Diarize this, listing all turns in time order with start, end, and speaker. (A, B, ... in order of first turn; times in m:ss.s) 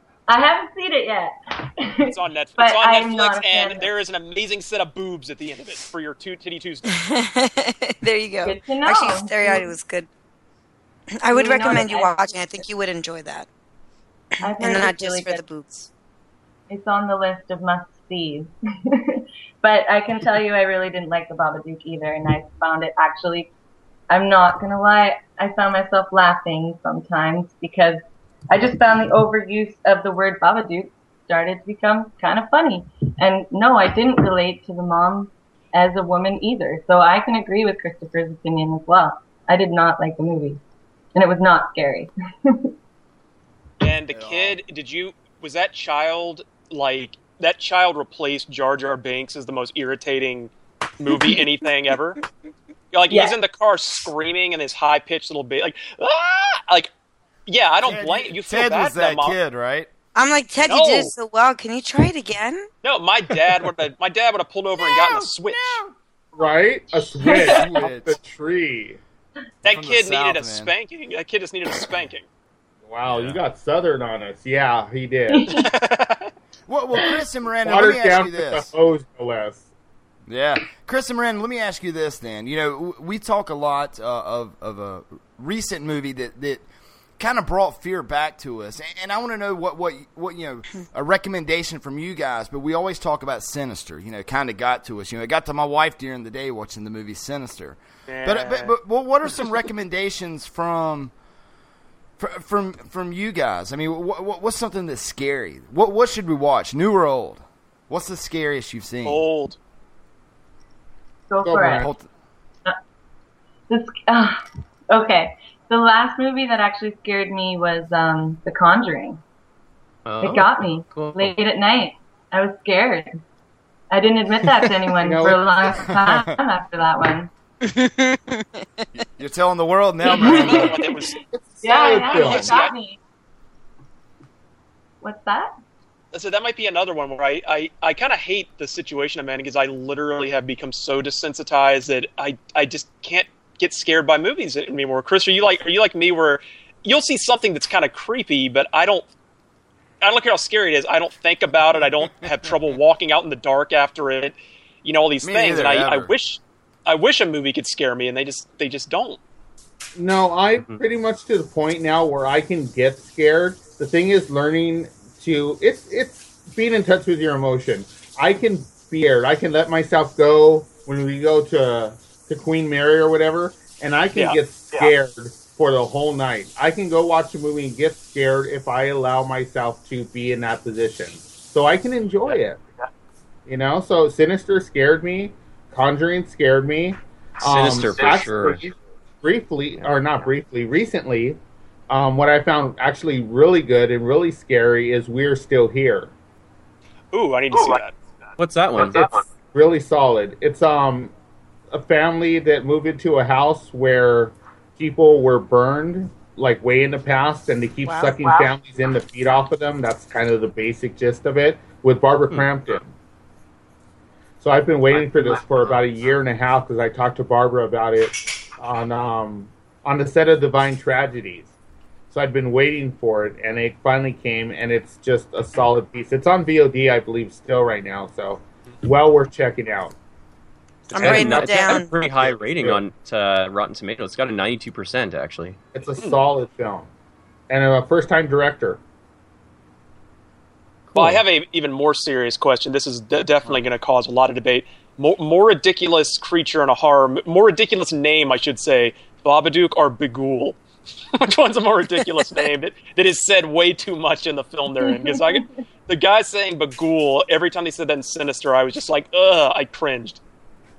0:00.3-0:03.8 A
0:02.0-0:06.9 B
0:06.9-0:10.1 C
0:08.4-0:09.7 A
0:11.2-0:13.5 C
0:11.3-0:12.4 A
0:14.4-0:15.9 C
0:14.4-0:15.4 A
0:16.7-0:23.5 A
0:24.1-0:40.6 A
0:41.1-0:42.7 A
0:43.8-0:52.2 B
0:44.1-0:44.6 D
0:52.9-0:56.9 B
0:53.1-0:53.4 A
0:57.5-0:59.4 B
0:57.8-0:59.9 D
1:00.1-1:02.7 C
1:00.6-1:01.1 B
1:02.8-1:05.8 B
1:04.8-1:05.9 D
1:06.3-1:09.0 E
1:07.2-1:07.6 A
1:07.3-1:08.2 D
1:09.6-1:12.2 B
1:09.6-1:10.7 D
1:12.8-1:15.5 E
1:13.1-1:13.4 D
1:15.3-1:15.6 A
1:15.5-1:16.3 B
1:16.7-1:18.7 D
1:17.6-1:19.7 E
1:20.3-1:26.6 D
1:27.2-1:41.1 D
1:38.1-1:38.7 B
1:42.2-1:49.2 D
1:49.0-1:49.6 B
1:51.3-1:51.9 A
1:51.4-1:51.9 E
1:51.6-1:52.1 D
1:53.7-1:59.2 A
2:00.0-2:01.3 F
2:00.2-2:03.2 A
2:03.9-2:07.3 A
2:05.0-2:05.4 E
2:05.6-2:06.3 D
2:07.6-2:08.6 C
2:08.9-2:10.9 D
2:10.0-2:10.8 A
2:10.3-2:11.2 B
2:11.3-2:12.7 E
2:11.6-2:13.0 A
2:12.1-2:12.7 B
2:15.0-2:15.5 A
2:16.1-2:29.0 B
2:30.0-2:39.2 B
2:35.2-2:36.1 D
2:40.0-3:02.6 E
2:40.6-2:40.8 F
2:54.1-2:54.9 B
3:03.5-3:08.6 E
3:07.4-3:08.7 F
3:09.2-3:11.4 E
3:11.9-3:16.1 E
3:17.1-3:17.9 B
3:18.4-3:19.2 F
3:19.5-3:21.1 E
3:21.7-3:32.9 E
3:27.8-3:28.5 C
3:34.4-3:41.5 E
3:35.0-3:35.2 F
3:42.1-3:49.9 E
3:50.9-3:55.6 F
3:50.9-3:52.0 C
3:52.2-3:52.8 E
3:55.7-3:56.9 E
3:57.5-3:58.8 E
4:00.9-4:01.2 F
4:00.9-4:10.6 B
4:11.2-4:20.2 B
4:14.8-4:15.4 A